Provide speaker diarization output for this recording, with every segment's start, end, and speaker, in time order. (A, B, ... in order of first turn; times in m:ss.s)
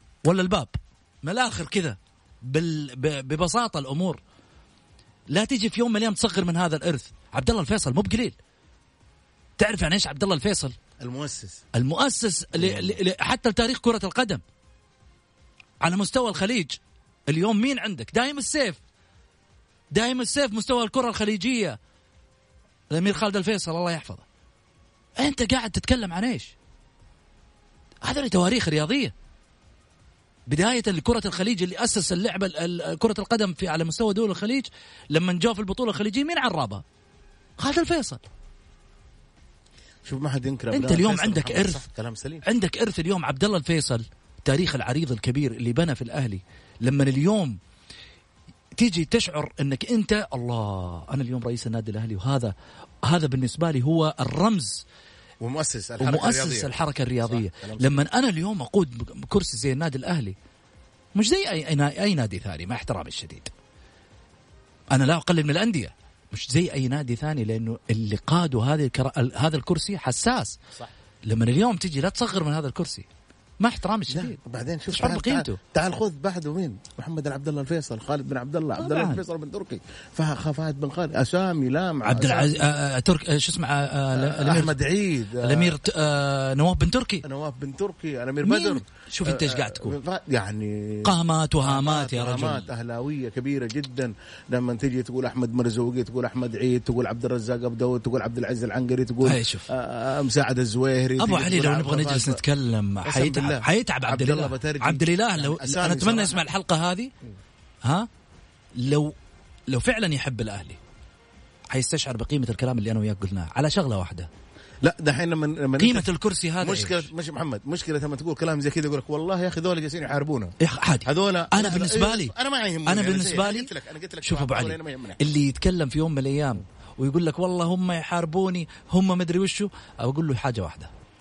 0:00.2-0:04.2 A
0:05.3-0:08.4 A
0:09.6-0:10.8 A
0:11.0-0:11.6 B
0:11.7-0:14.4 A
0:12.5-0:13.0 B
0:15.8-0:16.8 A
0:17.3-0:18.8 A
0:19.9-0:21.8 A
0:22.9-0:24.2 A
0:25.2-0:26.5 A
0:28.0-0:29.1 A
0:30.5-0:36.8 A
0:37.6-0:38.2 A
0:40.0-0:42.4 B
0:40.7-0:41.8 A
0:42.4-0:47.6 A
0:48.8-0:52.5 A
0:53.1-0:54.8 A
0:55.4-0:58.0 B
0:56.0-1:00.3 A
1:01.2-1:03.5 A
1:04.9-1:10.6 A
1:11.3-1:13.1 A
1:13.6-1:14.4 A
1:14.1-1:22.7 B
1:14.9-1:15.6 A
1:18.8-1:19.2 A
1:22.0-1:24.8 A
1:24.1-1:25.8 B
1:25.4-1:27.2 A
1:27.2-1:42.4 B
1:28.4-1:30.0 A
1:31.0-1:32.7 A
1:39.2-1:39.7 A
1:41.2-1:47.1 A
1:43.0-1:46.4 B
1:48.8-1:49.1 A
1:49.7-1:50.8 A
1:51.7-1:54.3 A
1:54.8-2:00.5 B
1:55.8-1:57.1 A
2:00.6-2:02.3 A
2:01.0-2:05.2 B
2:02.8-2:03.7 A
2:04.2-2:10.9 A